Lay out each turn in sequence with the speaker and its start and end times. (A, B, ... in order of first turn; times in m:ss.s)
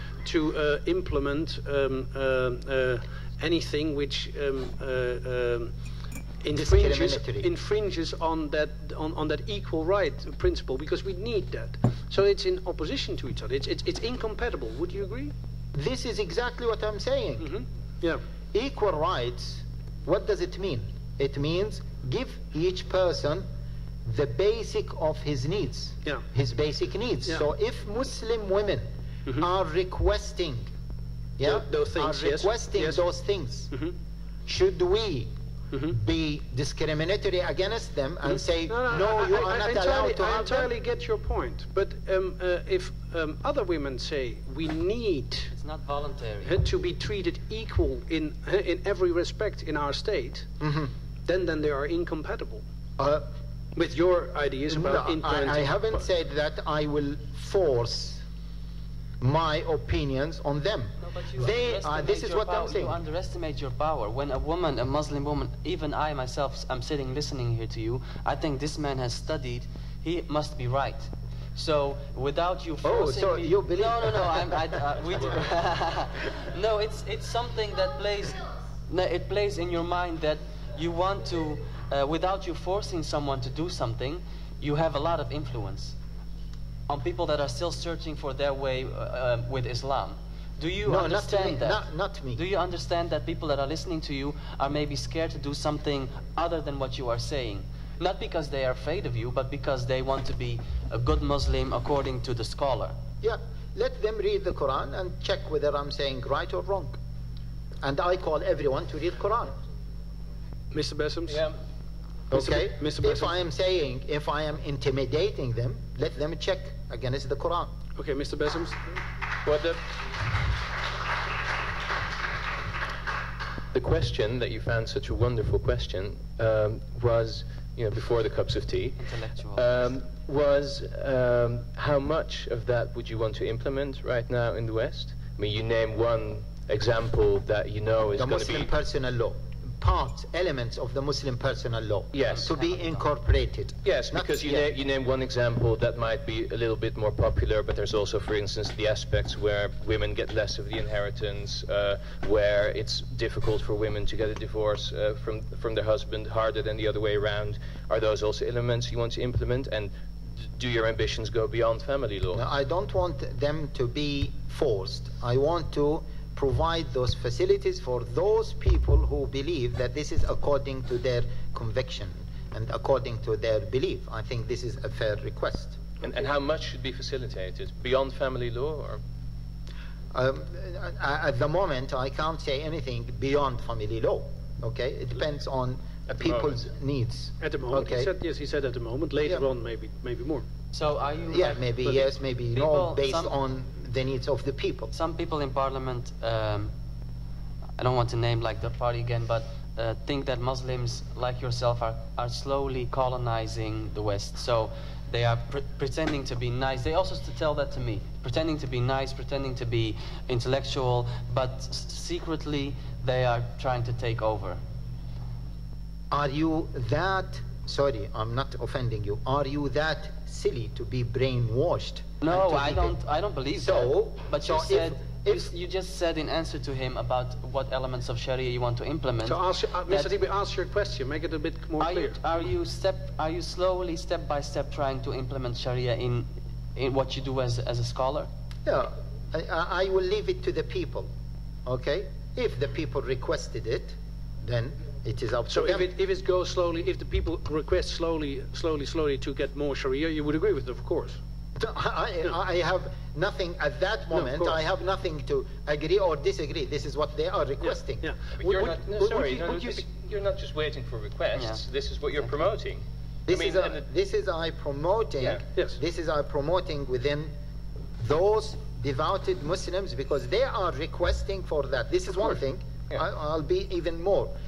0:00.2-0:05.7 A
0:06.4-0:15.3 A
0:06.5-0:07.5 B
0:15.7-0:17.5 B
0:17.4-0:18.2 A
0:18.5-0:23.5 B
0:24.0-0:28.9 B
0:29.4-0:30.7 B
0:31.4-0:33.7 B
0:31.4-0:33.0 A
0:34.5-0:35.3 B
0:35.9-0:40.7 B
0:38.7-0:45.5 A
0:45.5-0:46.6 C
0:46.4-0:50.5 A
0:50.6-0:50.9 B
0:51.2-0:52.6 A
0:53.0-0:53.2 B
0:53.8-0:56.0 A
0:54.7-0:58.2 B
0:59.2-1:03.0 B
1:01.0-1:26.0 C
1:12.8-1:14.7 B
1:26.9-1:43.0 C
1:30.9-1:32.4 B
1:43.2-1:47.0 B
1:47.8-1:49.6 B
1:50.7-1:51.4 A
1:51.3-1:51.6 D
1:52.3-1:57.7 B
1:52.3-1:53.3 A
1:58.0-1:58.8 A
1:59.4-1:59.8 D
2:03.7-2:18.7 D
2:09.0-2:09.8 C
2:18.2-2:24.7 B
2:22.1-2:22.5 D
2:22.3-2:23.0 C
2:23.8-2:42.4 D
2:42.3-2:55.8 B
2:56.0-2:59.0 D
3:00.1-3:08.1 B
3:06.2-3:06.6 D
3:07.4-3:10.4 A
3:10.7-3:11.6 C
3:11.3-3:14.9 B
3:12.5-3:13.3 C
3:14.9-3:16.7 C
3:17.8-3:34.6 C
3:36.1-3:43.0 B
3:42.2-3:50.2 C
3:43.6-3:45.5 B
3:49.2-3:52.2 A
3:51.8-3:58.3 C
3:58.7-4:01.1 B
4:01.7-4:05.9 B
4:05.5-4:11.2 A
4:11.6-4:19.8 B
4:14.1-4:14.6 A
4:18.0-4:18.8 A
4:18.4-4:23.8 D
4:21.4-4:21.6 C
4:23.3-4:27.3 B
4:28.0-4:34.3 B